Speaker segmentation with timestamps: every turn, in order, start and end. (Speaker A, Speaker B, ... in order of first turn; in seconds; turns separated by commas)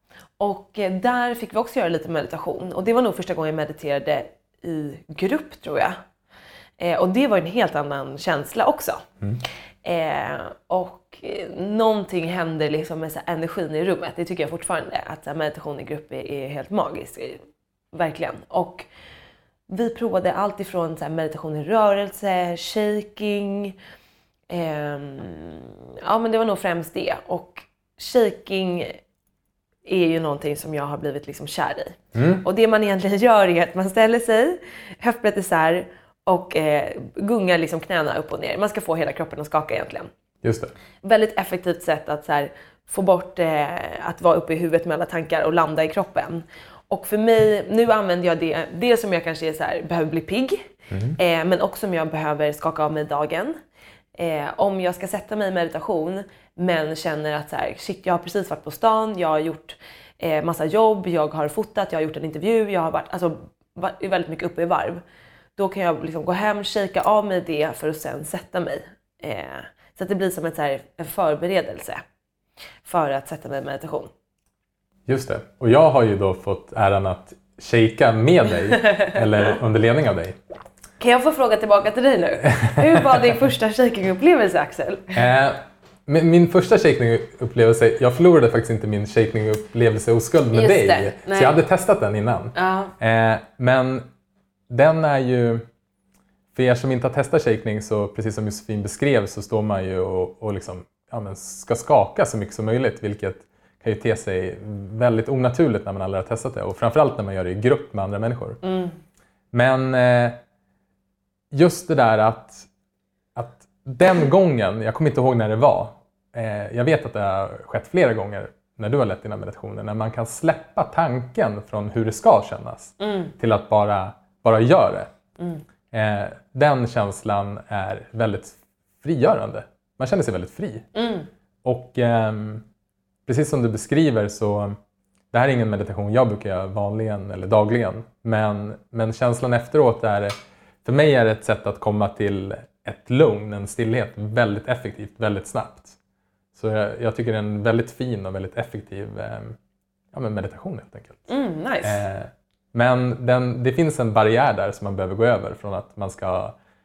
Speaker A: 0.4-6.0, Speaker A: 6.8-9.0, Speaker A: 9.8-17.4, Speaker A: 17.9-18.9, Speaker A: 19.7-23.8, Speaker A: 24.5-29.0, Speaker A: 29.8-40.1, Speaker B: 32.1-32.4, Speaker B: 40.4-40.7, Speaker A: 41.0-53.6, Speaker B: 50.9-51.2, Speaker A: 54.1-65.0, Speaker A: 65.5-72.0, Speaker A: 72.8-74.1, Speaker B: 75.1-80.4, Speaker A: 81.0-85.2, Speaker B: 85.1-94.0, Speaker A: 90.5-91.6, Speaker A: 92.5-92.9, Speaker B: 94.7-95.6, Speaker B: 96.5-108.6, Speaker A: 108.6-108.9, Speaker B: 109.5-110.4, Speaker B: 111.5-112.7, Speaker B: 113.3-125.1, Speaker A: 123.0-123.3, Speaker B: 125.9-130.9, Speaker A: 130.9-131.3, Speaker B: 131.6-132.6, Speaker B: 133.2-134.8, Speaker B: 135.3-146.0, Speaker B: 146.5-149.6, Speaker B: 150.1-151.3, Speaker A: 151.3-152.0, Speaker B: 151.8-156.6